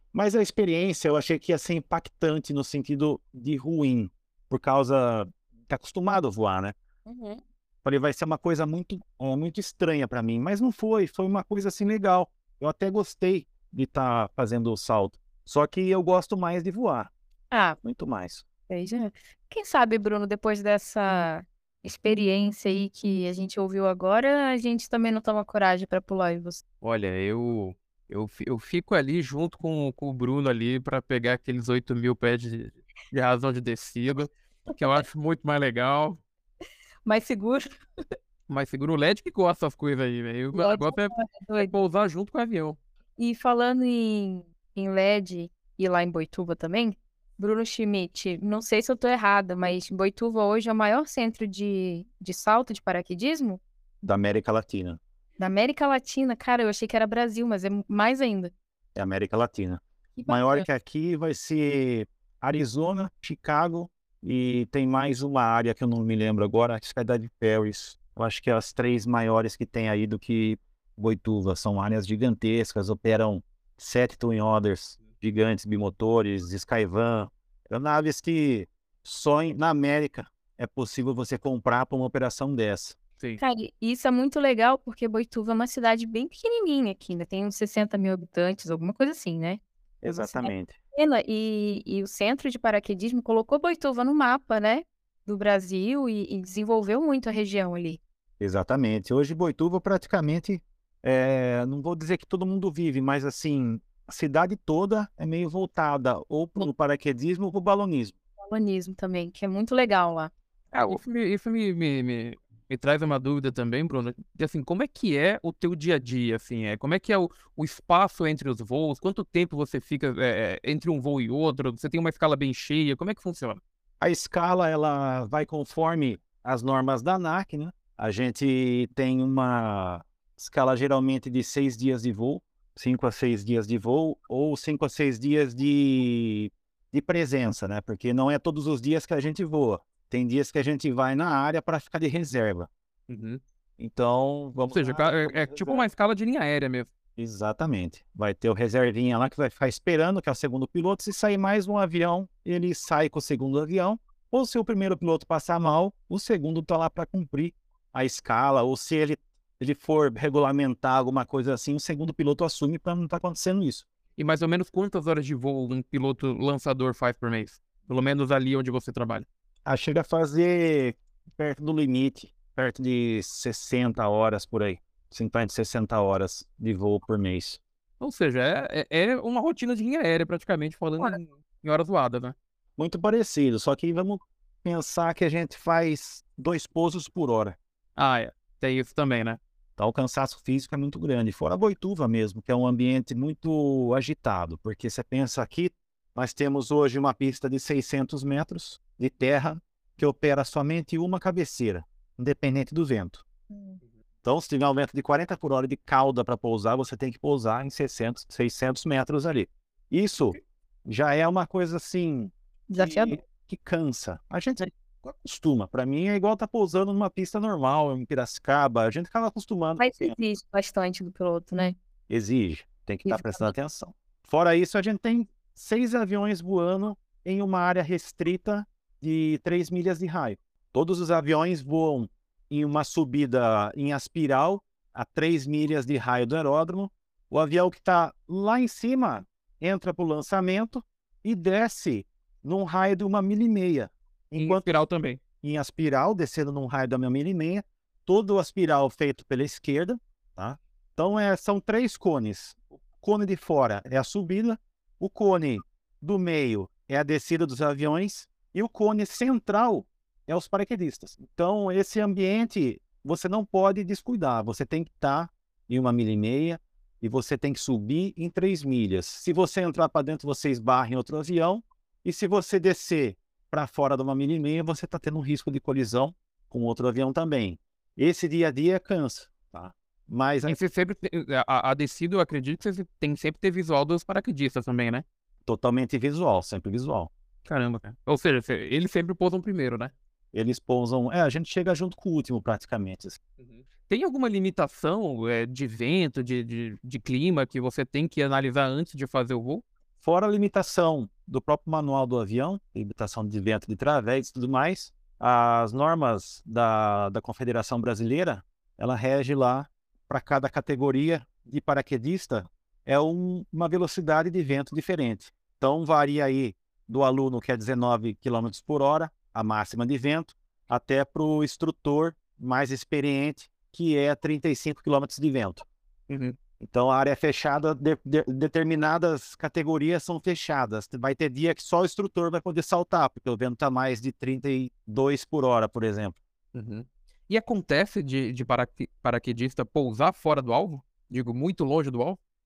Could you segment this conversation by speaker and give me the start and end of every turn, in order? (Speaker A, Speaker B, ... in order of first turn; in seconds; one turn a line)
Speaker A: 0.1-6.8
Speaker B: 7.0-7.4
Speaker A: 7.8-17.1
Speaker B: 17.5-17.8
Speaker A: 17.8-18.4
Speaker B: 18.7-26.6
Speaker C: 26.8-36.2
Speaker B: 37.0-37.7
Speaker C: 38.5-42.8
Speaker B: 40.5-41.7
Speaker B: 43.2-53.6
Speaker A: 54.0-55.0
Speaker B: 55.4-58.5
Speaker A: 58.9-83.0
Speaker B: 60.1-60.6
Speaker B: 83.4-89.6
Speaker A: 90.0-90.8
Speaker B: 90.1-98.0
Speaker A: 98.4-108.1
Speaker B: 108.4-110.3
Speaker C: 110.7-123.6
Speaker A: 124.0-142.7
Speaker C: 143.1-143.4
Speaker A: 143.8-145.8
Speaker C: 144.7-146.9
Speaker A: 147.2-163.8
Speaker C: 164.2-169.2
Speaker A: 169.6-177.6
Speaker C: 178.0-182.3
Speaker A: 182.8-187.6
Speaker C: 187.9-189.4
Speaker A: 189.8-203.2
Speaker B: 203.5-203.8
Speaker A: 204.2-220.2
Speaker B: 212.7-213.2
Speaker B: 219.8-221.8
Speaker A: 222.1-244.6
Speaker B: 223.1-223.5
Speaker C: 244.3-245.2
Speaker A: 245.4-280.6
Speaker C: 280.4-285.0
Speaker A: 285.4-287.1
Speaker C: 287.4-289.9
Speaker A: 290.3-293.2
Speaker C: 293.4-299.6
Speaker A: 300.0-325.6
Speaker C: 326.1-326.4
Speaker A: 326.6-336.2
Speaker C: 336.5-342.2